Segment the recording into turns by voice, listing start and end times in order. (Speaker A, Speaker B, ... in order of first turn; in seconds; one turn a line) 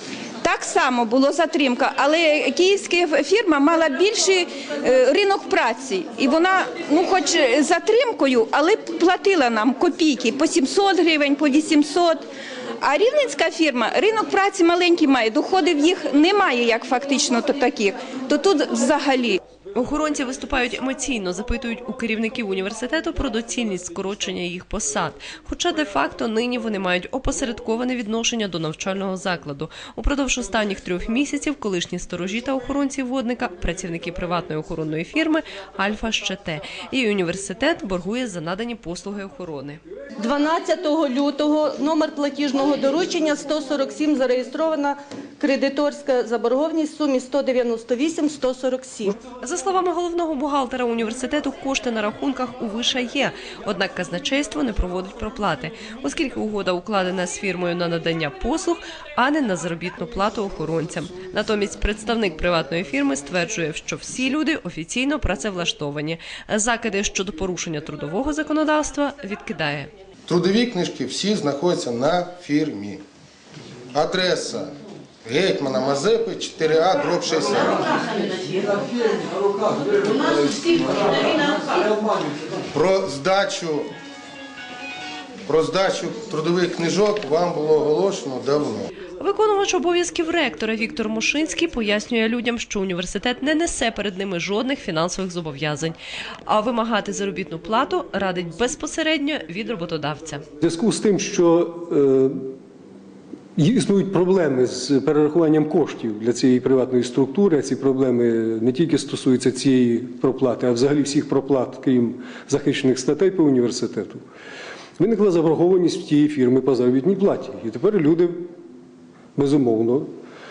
Speaker A: 0.4-12.2
Speaker A: 12.8-19.4
Speaker B: 19.7-39.8
Speaker C: 40.2-49.2
Speaker B: 49.4-69.9
Speaker D: 70.3-73.0
Speaker D: 73.9-74.7
Speaker D: 75.2-78.1
Speaker D: 79.9-81.8
Speaker D: 82.7-83.9
Speaker D: 85.5-88.9
Speaker B: 89.2-100.4
Speaker E: 100.6-102.4
Speaker E: 103.5-114.2
Speaker E: 115.0-118.4
Speaker E: 119.3-120.1